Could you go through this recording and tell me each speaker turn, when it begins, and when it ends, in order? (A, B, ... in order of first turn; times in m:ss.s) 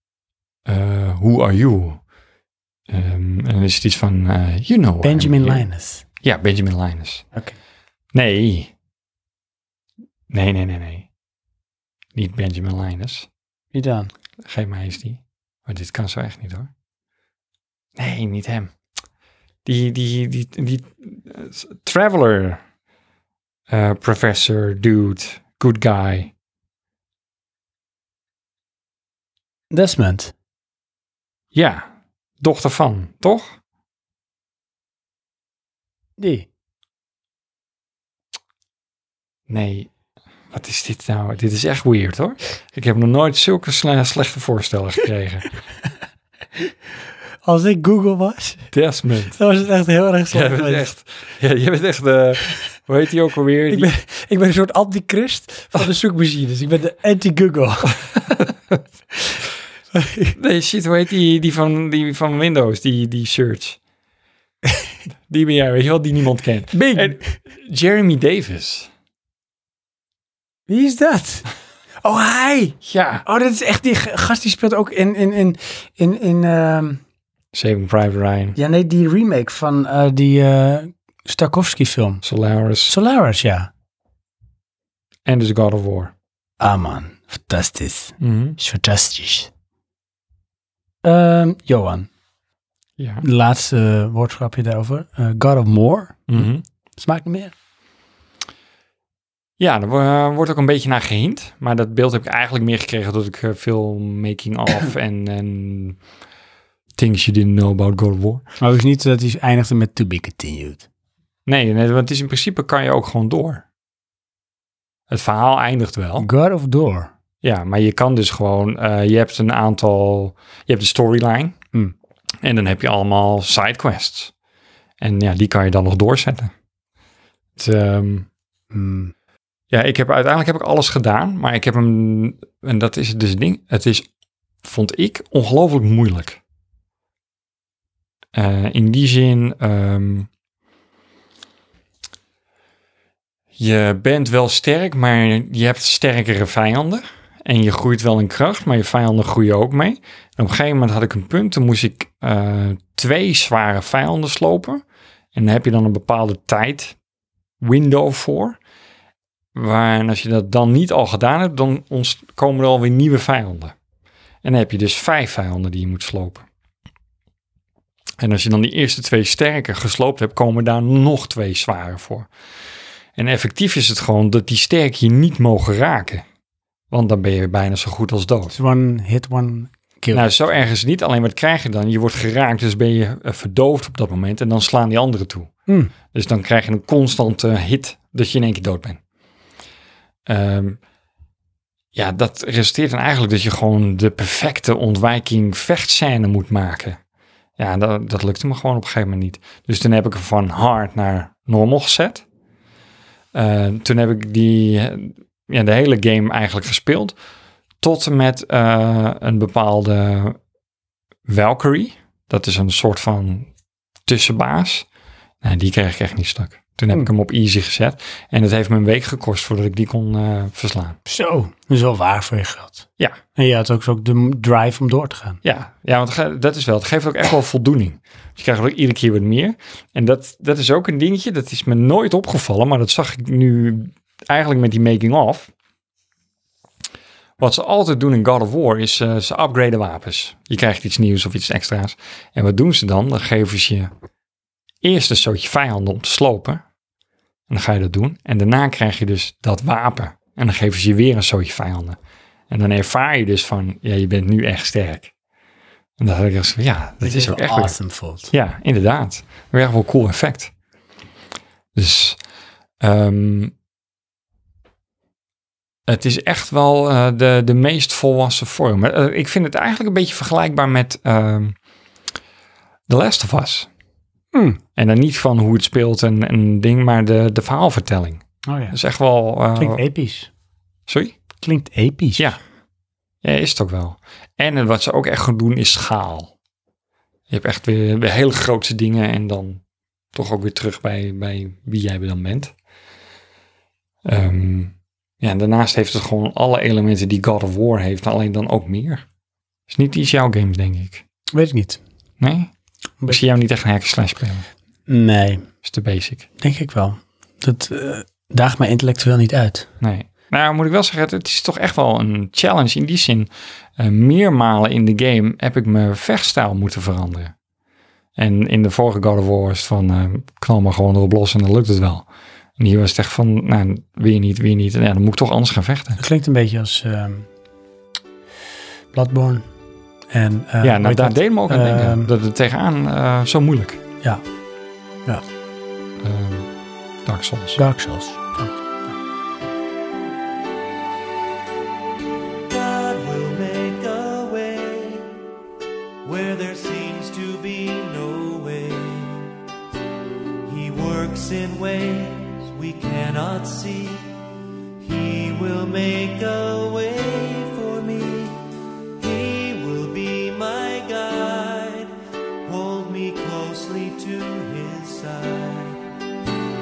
0:00.6-0:02.0 A
0:02.9-0:05.6 A
0:05.0-0:06.0 B
0:06.2-0:07.2 A
0:08.1-0:08.7 A
0:10.3-0:11.1 A
0:12.1-0:13.3 A
0:13.7-0:14.1 B
0:14.4-0:16.7 A
0:18.0-0:18.7 A
0:19.6-0:22.6 A
0:23.7-0:26.3 A
0:29.7-0:30.3 B
0:31.5-0:31.8 A
0:32.4-0:33.5 A
0:36.2-0:36.5 B
0:39.5-0:39.9 A
0:40.5-0:45.5 A
0:47.4-0:48.7 B
0:48.7-0:49.4 A
0:49.3-0:50.9 B
0:50.3-0:53.9 A
0:53.7-0:58.1 B
0:59.9-1:00.3 B
1:00.4-1:03.8 A
1:05.3-1:08.9 A
1:06.7-1:07.2 B
1:10.7-1:11.5 B
1:12.0-1:17.0 B
1:12.8-1:13.2 A
1:17.5-1:18.6 A
1:18.6-1:22.2 B
1:22.2-1:22.9 A
1:22.9-1:23.7 B
1:25.2-1:26.1 A
1:26.6-1:29.5 B
1:28.2-1:28.6 A
1:31.0-1:32.1 B
1:33.0-1:33.2 A
1:33.2-1:37.5 B
1:36.3-1:36.6 A
1:39.6-1:46.0 A
1:47.0-1:48.4 A
1:48.6-1:50.9 B
1:51.4-1:53.6 A
1:55.1-1:56.3 A
1:56.2-1:57.1 B
1:57.4-2:01.6 A
2:02.4-2:04.3 A
2:05.0-2:06.5 A
2:07.6-2:08.3 A
2:08.7-2:09.1 B
2:09.7-2:14.0 A
2:14.6-2:16.4 A
2:18.3-2:20.3 A
2:23.6-2:34.8 A
2:35.3-2:37.0 A
2:37.6-2:38.6 A
2:39.5-2:43.7 A
2:44.4-2:46.4 A
2:48.2-2:52.3 A
2:53.2-2:56.2 A
2:56.9-2:58.5 A
2:58.5-3:00.3 B
3:00.1-3:05.5 A
3:05.7-3:05.9 B
3:06.1-3:09.0 A
3:10.2-3:10.8 A
3:11.9-3:17.0 A
3:17.6-3:22.2 A
3:23.3-3:27.1 A
3:27.8-3:30.4 A
3:31.3-3:33.5 A
3:34.1-3:34.8 A
3:35.4-3:41.0 A
3:41.0-3:45.4 B
3:45.4-3:55.5 A
3:57.4-4:03.9 A
4:04.8-4:06.6 A
4:07.5-4:12.0 A
4:12.5-4:15.1 A
4:16.0-4:17.8 A
4:17.0-4:18.3 B
4:18.3-4:20.5 A
4:21.7-4:22.2 A
4:22.8-4:23.5 A
4:25.9-4:31.5 A
4:32.9-4:33.7 A
4:34.3-4:34.6 B
4:34.8-4:39.8 A
4:38.4-4:38.8 B
4:39.5-4:40.3 B
4:40.9-4:41.1 A
4:41.4-4:42.3 B
4:43.2-4:46.3 A
4:47.3-4:49.6 A
4:50.1-4:52.5 A
4:54.0-4:59.0 A
4:59.7-5:01.0 A
5:01.3-5:01.8 B
5:02.2-5:02.5 A
5:03.1-5:04.4 A
5:04.9-5:05.5 B
5:05.6-5:06.3 A
5:06.4-5:09.7 B
5:09.8-5:17.3 A
5:18.2-5:22.1 A
5:22.6-5:26.0 A
5:26.0-5:27.3 B
5:28.9-5:29.4 B
5:30.1-5:32.1 B
5:30.6-5:33.8 A
5:36.0-5:36.5 A
5:37.0-5:37.6 A
5:37.6-5:38.5 B
5:42.5-5:45.1 C
5:46.0-5:49.4 C
5:50.4-5:54.2 C
5:54.8-6:01.9 C
6:02.4-6:05.8 C